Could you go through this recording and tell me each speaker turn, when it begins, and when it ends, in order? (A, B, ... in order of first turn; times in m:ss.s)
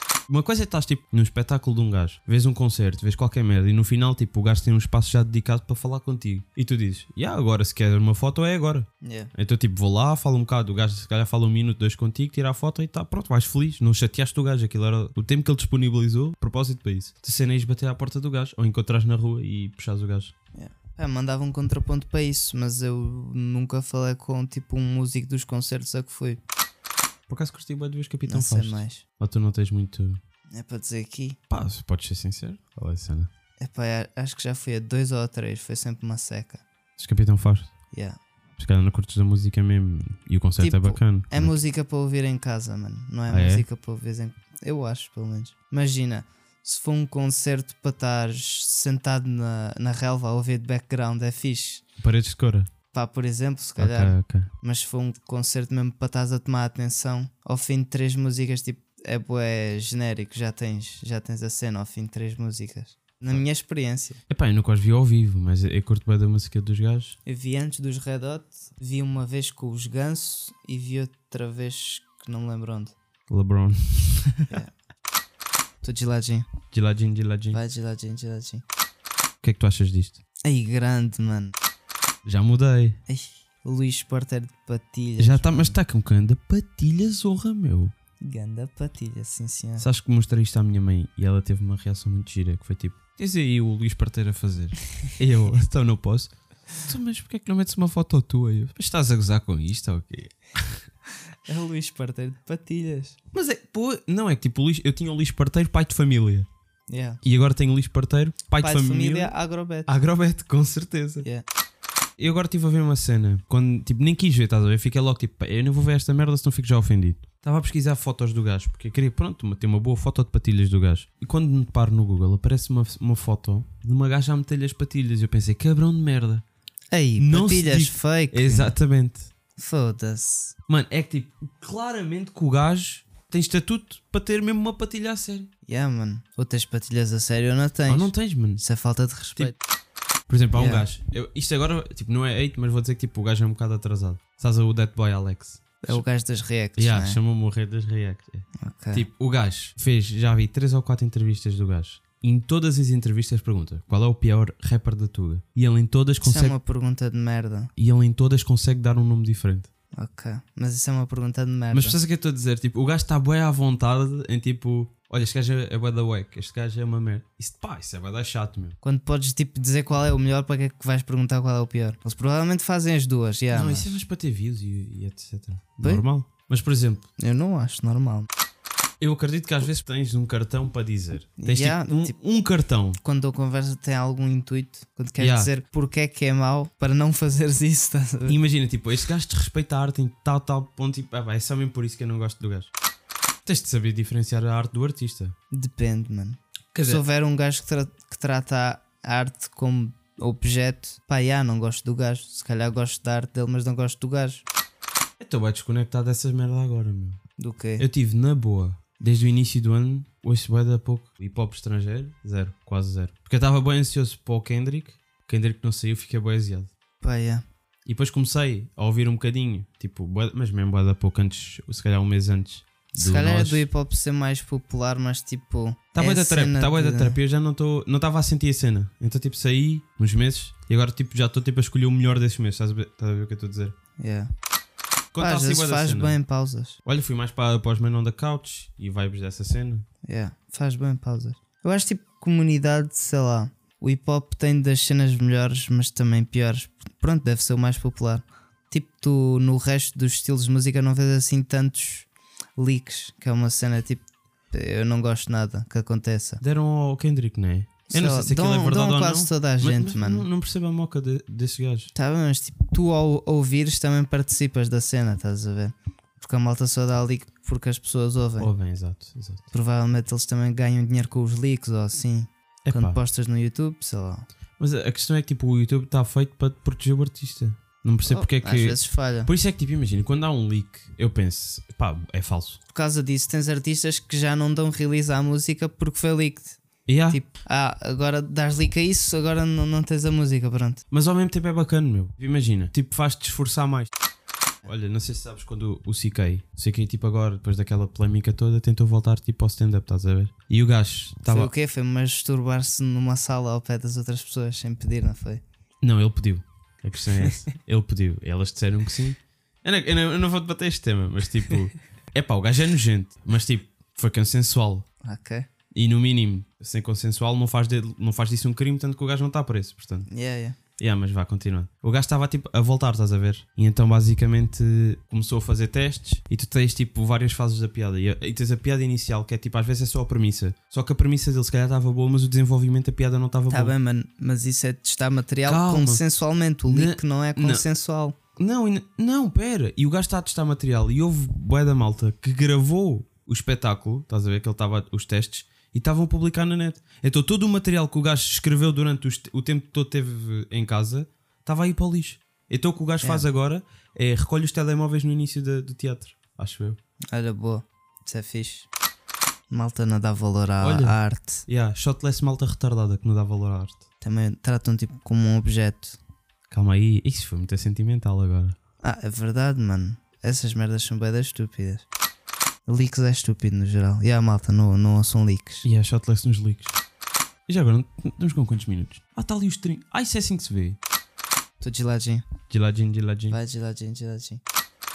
0:00.3-0:20.3 A
0:09.0-0:09.3 B
0:20.6-0:26.4 B
0:27.3-0:30.2 A
0:28.3-0:29.0 B
0:30.5-0:31.4 B
0:31.5-0:33.3 A
0:33.6-0:36.6 B
0:37.0-0:37.7 A
0:37.9-0:38.2 B
0:38.6-0:41.5 A
0:40.6-0:51.8 B
0:43.3-0:43.6 A
0:52.0-0:52.7 A
0:52.9-1:04.2 B
0:53.8-0:54.5 A
1:04.3-1:07.2 A
1:07.3-1:13.0 B
1:13.3-1:14.6 A
1:15.8-1:16.5 B
1:16.7-1:17.6 A
1:17.5-1:18.6 B
1:19.4-1:20.2 A
1:20.4-1:21.5 B
1:22.2-1:23.0 A
1:23.1-1:25.8 B
1:25.2-1:27.9 A
1:28.2-1:29.9 B
1:29.8-1:40.8 A
1:41.4-1:43.2 B
1:43.3-1:46.5 A
1:46.9-1:47.2 B
1:47.2-1:49.3 A
1:48.6-1:50.0 B
1:49.9-1:51.3 A
1:52.2-2:06.4 A
2:06.9-2:08.8 B
2:07.2-2:09.3 A
2:09.6-2:10.6 B
2:10.7-2:15.5 A
2:15.6-2:19.6 B
2:17.9-2:18.6 A
2:20.3-2:26.0 A
2:20.5-2:20.8 B
2:25.8-2:27.2 B
2:26.8-2:36.6 A
2:28.6-2:29.1 B
2:36.2-2:37.7 B
2:37.8-2:39.7 A
2:39.9-2:42.0 B
2:41.7-2:48.8 A
2:48.8-2:54.0 B
2:53.5-2:57.0 A
2:57.2-2:58.3 B
2:59.0-3:03.0 A
3:01.4-3:02.1 B
3:03.0-3:08.4 B
3:05.2-3:05.5 A
3:08.3-3:12.7 A
3:13.4-3:15.3 A
3:15.5-3:24.5 B
3:16.7-3:17.0 A
3:25.2-3:27.2 A
3:27.4-3:27.8 B
3:27.8-3:36.7 A
3:37.0-3:37.4 B
3:37.9-3:43.7 A
3:43.0-3:47.2 B
3:46.0-3:53.7 A
3:54.0-3:54.3 B
3:55.1-3:56.2 A
3:55.2-3:56.8 B
3:56.8-3:59.9 A
4:00.0-4:16.4 B
4:16.4-4:21.9 A
4:17.9-4:20.3 B
4:21.9-4:28.5 B
4:28.4-4:29.5 A
4:29.5-4:34.2 B
4:32.7-4:33.0 A
4:34.6-4:42.6 A
4:38.1-4:39.3 B
4:42.7-4:50.8 B
4:46.9-4:47.2 A
4:50.9-4:53.9 A
4:54.6-5:01.5 A
5:01.3-5:05.4 B
5:05.8-5:14.8 A
5:15.0-5:15.5 B
5:15.7-5:20.1 A
5:20.1-5:20.6 B
5:20.8-5:33.7 A
5:33.5-5:38.2 B
5:35.5-5:36.0 A
5:36.7-5:37.6 A
5:38.4-5:56.8 A
5:53.0-5:53.3 B
5:57.1-5:58.7 B
5:59.5-6:01.5 B
6:00.6-6:03.8 A
6:04.0-6:06.0 B
6:06.5-6:08.6 A
6:08.8-6:11.8 B
6:12.7-6:15.7 B
6:15.6-6:16.8 A
6:17.5-6:20.8 A
6:21.6-6:22.3 B
6:22.5-6:23.4 A
6:23.3-6:24.4 B